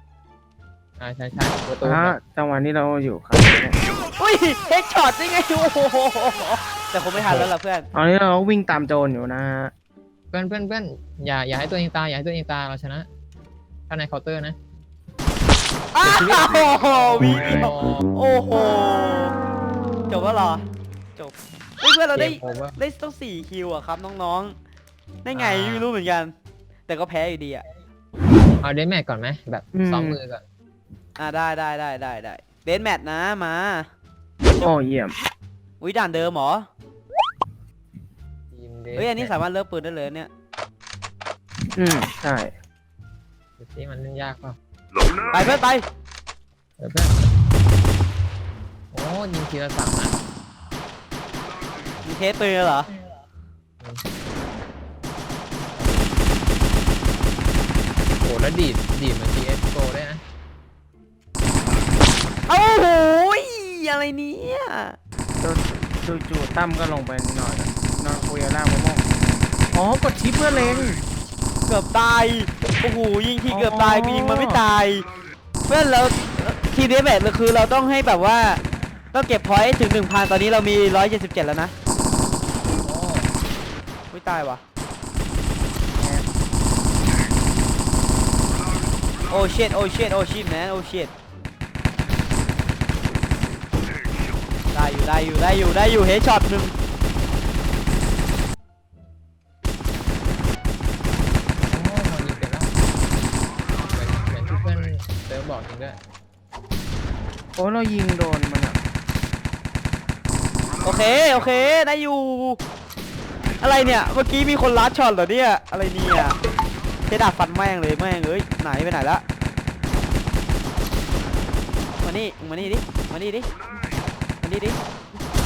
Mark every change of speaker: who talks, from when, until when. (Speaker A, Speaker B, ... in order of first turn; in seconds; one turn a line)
Speaker A: 1.0-2.2
Speaker B: 1.8-3.8
Speaker C: 4.1-7.9
Speaker A: 7.1-7.5
Speaker B: 7.9-9.7
Speaker A: 10.3-13.1
Speaker A: 13.9-14.6
Speaker C: 15.9-19.3
Speaker A: 16.0-18.1
Speaker C: 20.1-24.6
Speaker A: 22.1-22.8
Speaker C: 25.2-26.3
Speaker A: 25.3-25.9
Speaker C: 26.9-27.6
Speaker A: 28.6-30.4
Speaker B: 29.7-30.2
Speaker C: 31.2-33.9
Speaker B: 34.6-35.2
Speaker C: 35.8-36.7
Speaker A: 38.5-39.3
Speaker C: 38.9-40.3
Speaker B: 41.8-42.5
Speaker A: 43.6-44.6
Speaker C: 45.3-45.8
Speaker A: 46.8-47.2
Speaker A: 48.9-50.2
Speaker C: 52.0-52.9
Speaker A: 55.8-56.1
Speaker A: 58.2-60.2
Speaker C: 62.5-65.0
Speaker B: 65.4-69.0
Speaker B: 69.7-71.0
Speaker C: 71.7-75.1
Speaker B: 73.5-74.6
Speaker C: 75.7-78.6
Speaker C: 79.1-81.7
Speaker A: 82.8-83.3
Speaker C: 84.1-84.6
Speaker B: 86.0-86.2
Speaker C: 89.3-91.1
Speaker C: 94.7-96.8
Speaker A: 101.7-102.7
Speaker A: 103.8-106.0
Speaker B: 107.6-108.8
Speaker C: 110.8-112.6
Speaker C: 113.6-116.4
Speaker C: 117.1-119.2
Speaker C: 122.0-123.5
Speaker C: 124.4-124.8